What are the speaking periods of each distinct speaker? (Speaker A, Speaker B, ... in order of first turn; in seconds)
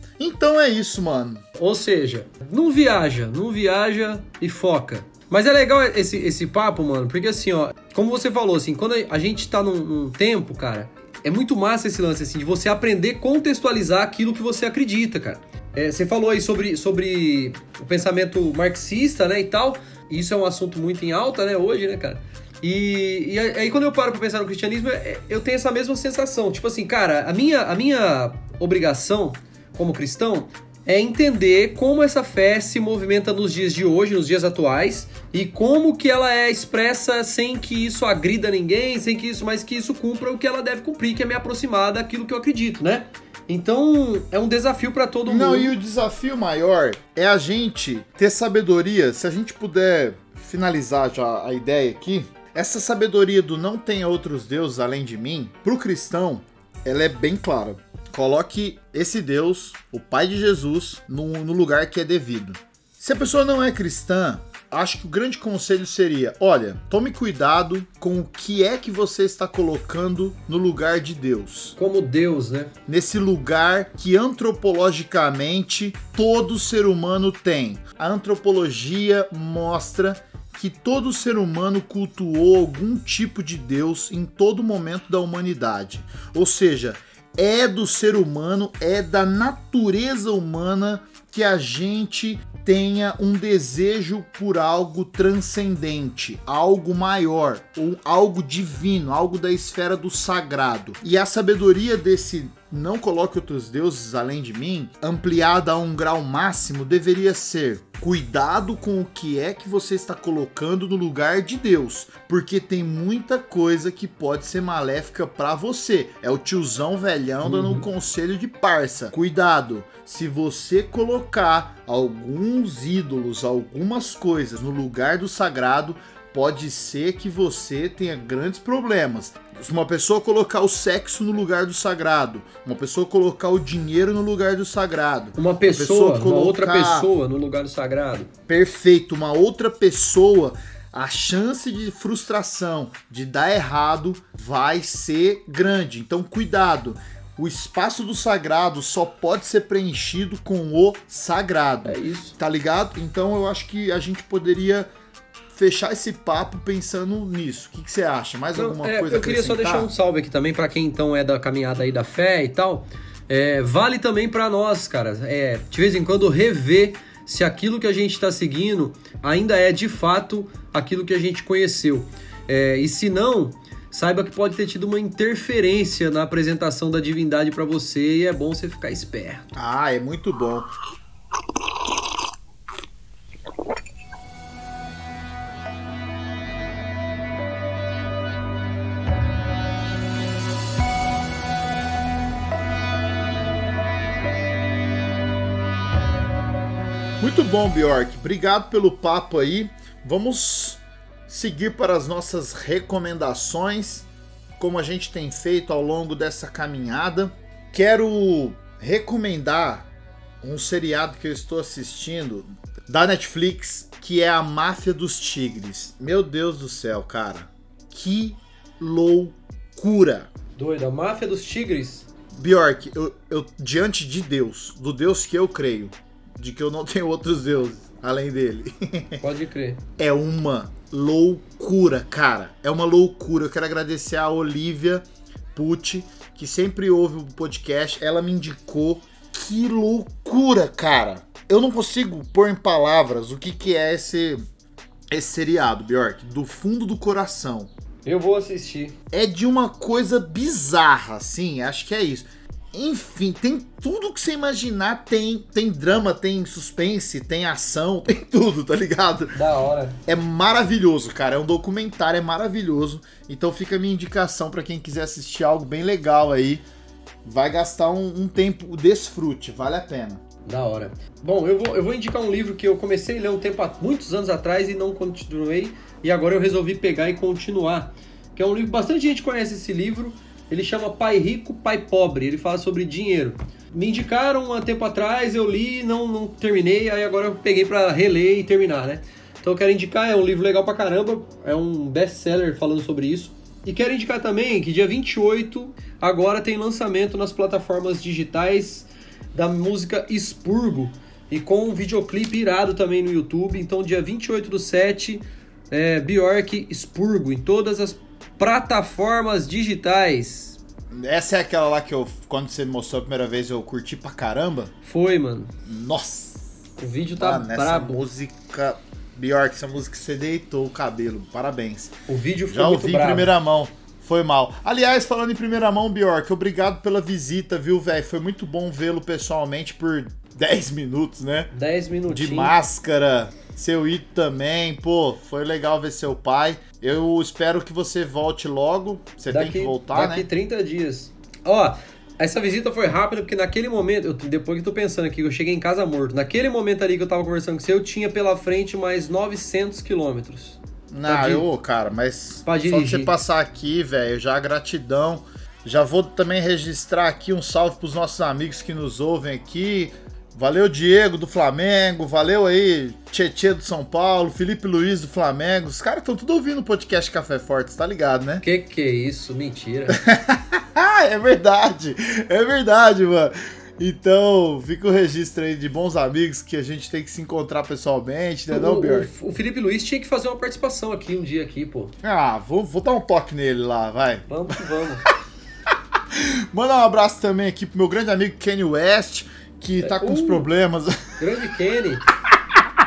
Speaker A: 0.2-1.4, 45.3-71.8, 72.9-137.1, 138.5-154.9, 155.5-159.9, 179.6-180.7, 197.2-204.1, 204.6-209.9, 210.4-220.3, 222.3-229.2, 230.0-244.4, 245.1-247.7, 249.1-259.4, 260.1-266.7, 267.2-270.2, 310.9-314.7, 315.6-316.5, 317.1-321.9, 322.5-331.5, 332.1-340.3, 350.9-368.4, 369.9-379.1, 382.0-384.6, 385.7-391.2
Speaker B: 1.6-45.7, 71.8-72.7, 117.4-117.9, 135.4-138.3, 151.8-152.4, 158.6-179.5, 220.6-222.1, 229.2-229.8, 248.1-249.0, 259.4-260.0, 270.5-310.6, 314.8-315.5, 316.8-318.0, 322.1-323.3, 331.5-332.6, 339.3-351.5, 352.5-353.1, 368.4-370.0, 378.5-381.9, 384.3-385.1, 389.8-390.5, 391.2-392.0